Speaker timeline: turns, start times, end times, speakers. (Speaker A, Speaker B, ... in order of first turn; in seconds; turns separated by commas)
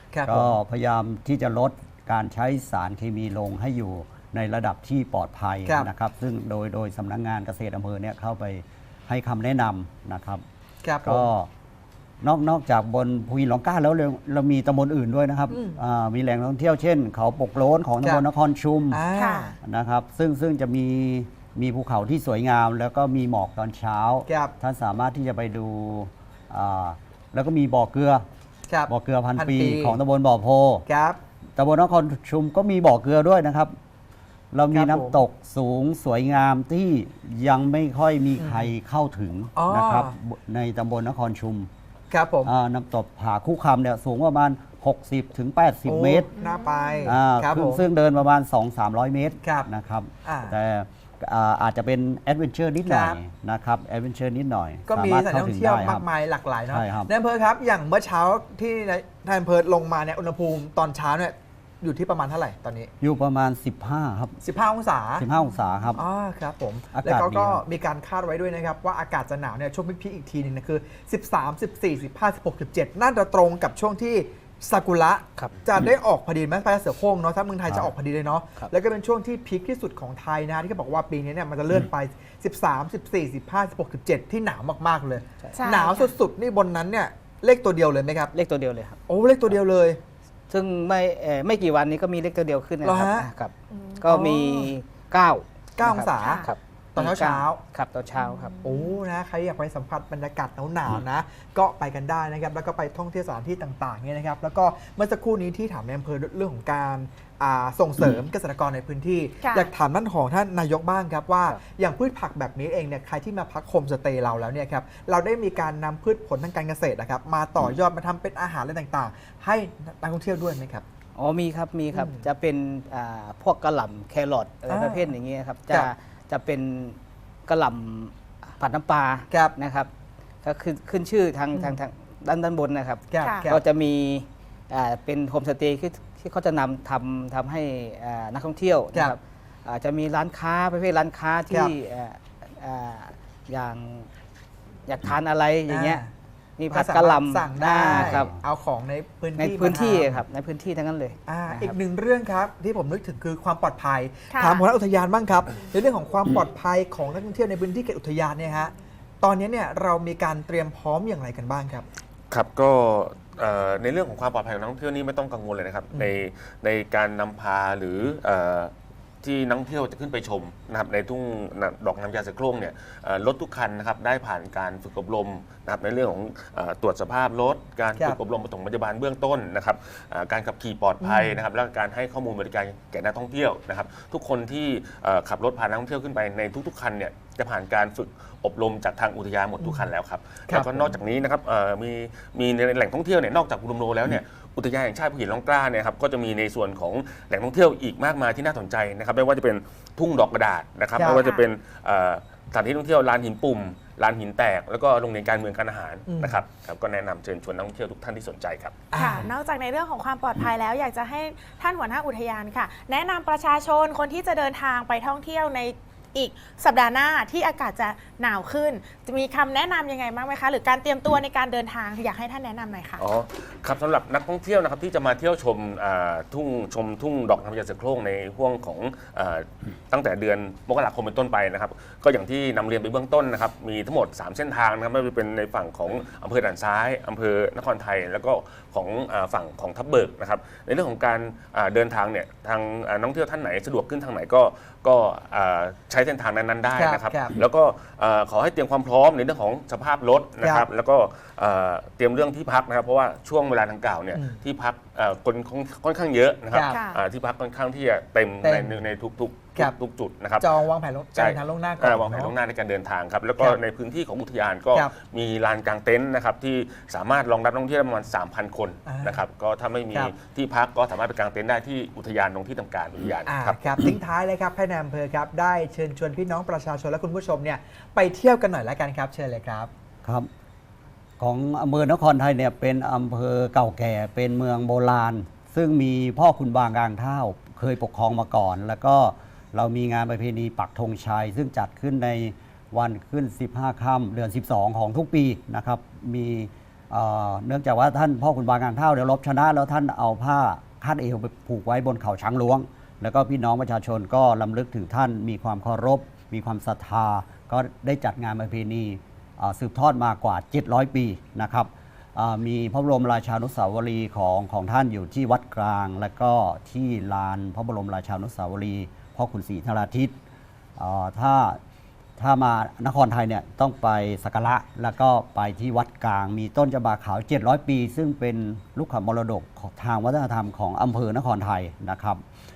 Speaker A: 0.1-0.6, Speaker B: 0.2-10.4, Speaker A: 5.7-5.9, Speaker A: 10.8-11.3, Speaker B: 11.0-11.5, Speaker B: 12.2-19.1, Speaker A: 15.5-15.8, Speaker A: 18.9-19.5, Speaker C: 19.1-19.6, Speaker B: 19.6-28.2, Speaker A: 24.3-24.5, Speaker A: 28.7-30.0, Speaker B: 28.9-30.8, Speaker A: 30.9-31.2, Speaker B: 31.6-33.7, Speaker B: 34.5-41.7, Speaker A: 34.7-35.2, Speaker A: 38.4-38.7, Speaker A: 39.5-40.1, Speaker A: 42.1-42.5, Speaker B: 42.4-46.3, Speaker A: 45.8-47.9, Speaker C: 46.4-47.1, Speaker B: 47.0-56.0, Speaker A: 49.4-49.7, Speaker A: 50.2-50.5, Speaker A: 52.8-53.2, Speaker A: 54.9-62.9, Speaker B: 56.7-57.1, Speaker B: 63.0-64.4, Speaker A: 64.4-65.2, Speaker B: 65.2-66.0, Speaker A: 66.0-88.3, Speaker B: 66.9-67.6, Speaker C: 85.5-86.1, Speaker D: 88.3-89.0, Speaker A: 89.1-90.0, Speaker D: 90.5-98.5, Speaker A: 92.8-93.3, Speaker A: 94.0-94.7, Speaker A: 95.8-96.4, Speaker C: 96.2-96.5, Speaker A: 97.0-97.6, Speaker C: 98.2-99.0, Speaker A: 98.6-120.8, Speaker C: 109.4-109.7, Speaker D: 121.2-129.9, Speaker A: 121.9-122.2, Speaker A: 124.7-125.1, Speaker D: 130.4-144.1, Speaker A: 131.5-131.8, Speaker A: 133.1-133.6, Speaker C: 133.2-133.5, Speaker D: 144.9-146.0, Speaker A: 145.7-146.1, Speaker D: 146.6-148.3, Speaker A: 146.7-150.2, Speaker B: 147.9-148.3, Speaker D: 149.4-151.8, Speaker A: 151.3-161.8, Speaker C: 154.3-154.7, Speaker E: 162.3-208.7, Speaker A: 181.0-181.4, Speaker A: 189.6-189.9, Speaker A: 190.5-190.9, Speaker A: 200.9-201.2, Speaker C: 201.1-201.4, Speaker A: 206.1-206.4, Speaker A: 208.9-209.3, Speaker C: 208.9-223.0, Speaker E: 223.0-260.5, Speaker A: 246.7-247.4, Speaker A: 250.4-250.7, Speaker A: 254.1-254.4, Speaker A: 256.5-256.8, Speaker C: 256.6-257.0, Speaker A: 258.4-258.8, Speaker A: 260.4-262.3, Speaker E: 261.1-273.9, Speaker A: 268.9-269.2, Speaker A: 273.2-279.7, Speaker B: 281.2-320.1, Speaker B: 320.8-321.6, Speaker B: 322.2-332.2